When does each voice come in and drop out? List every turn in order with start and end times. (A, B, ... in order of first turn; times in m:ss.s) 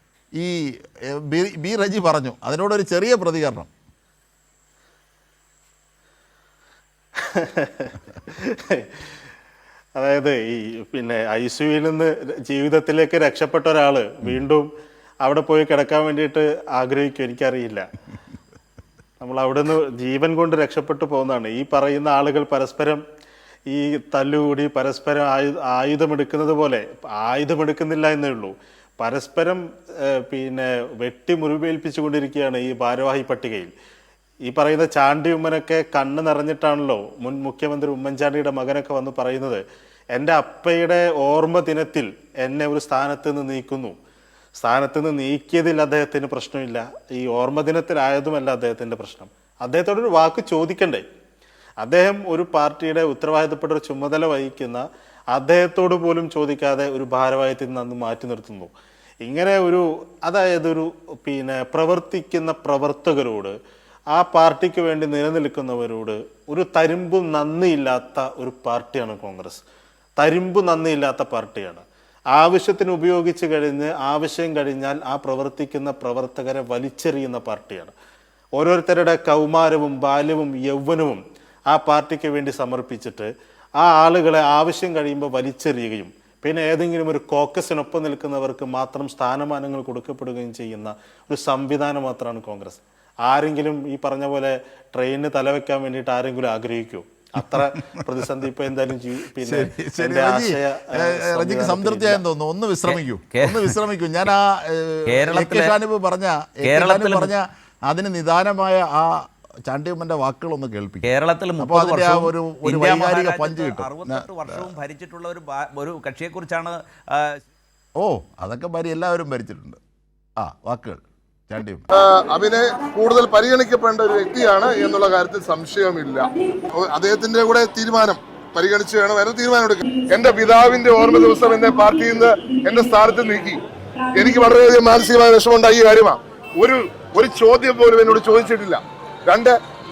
0:01.2-0:03.7 A
0:07.3-0:09.1 B
0:10.0-0:14.7 B
0:15.2-0:17.9 B
0:19.2-0:23.0 B
0:23.7-0:33.7 B
0:34.5-0:39.6 B
0:40.2-0:44.0 B
0:44.6-0:51.0 B
0:51.8-0:58.7 B
0:59.2-1:03.6 B
1:04.1-1:09.6 B
1:10.2-1:17.9 B
1:18.6-1:42.2 B
1:39.4-1:54.7 A
1:42.9-1:43.8 C
1:45.1-1:45.8 C
1:46.6-1:47.3 C
1:51.0-1:57.4 C
1:58.0-1:59.8 A
2:00.4-2:01.8 A
2:01.9-2:13.6 D
2:14.1-2:19.6 D